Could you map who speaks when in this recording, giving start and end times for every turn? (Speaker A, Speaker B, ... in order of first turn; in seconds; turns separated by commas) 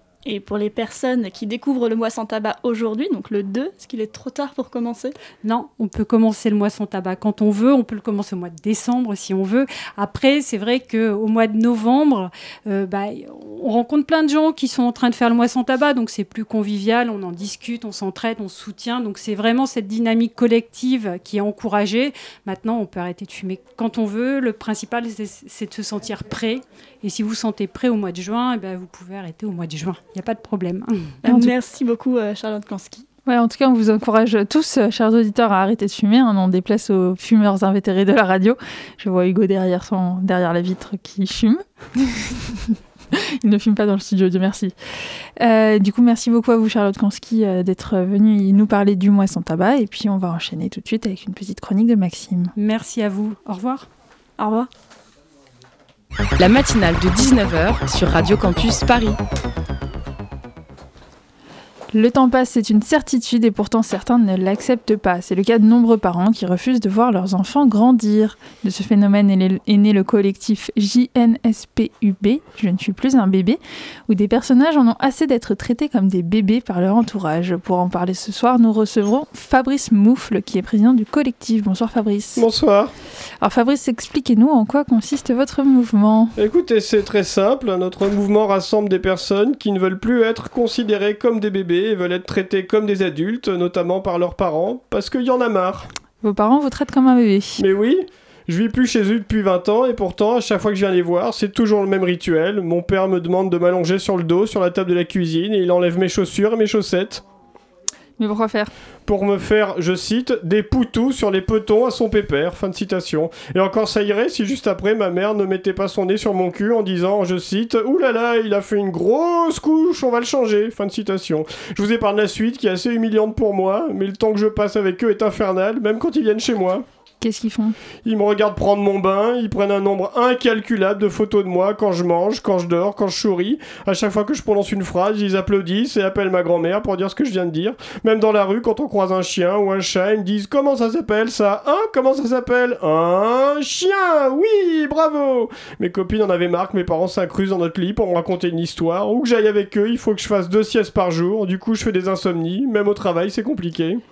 Speaker A: 0.2-5.2, Speaker B: 5.4-31.1, Speaker A: 31.2-33.1, Speaker C: 31.3-31.5, Speaker C: 33.2-44.7, Speaker C: 45.4-52.5, Speaker B: 52.6-53.9, Speaker A: 54.4-54.7, Speaker D: 56.4-59.2, Speaker C: 61.9-82.4, Speaker E: 82.3-82.9, Speaker C: 83.4-86.3, Speaker E: 86.3-95.9, Speaker C: 96.2-97.6, Speaker E: 97.6-107.2, Speaker C: 108.2-108.7, Speaker E: 109.1-126.8, Speaker C: 127.2-127.8, Speaker E: 128.0-154.0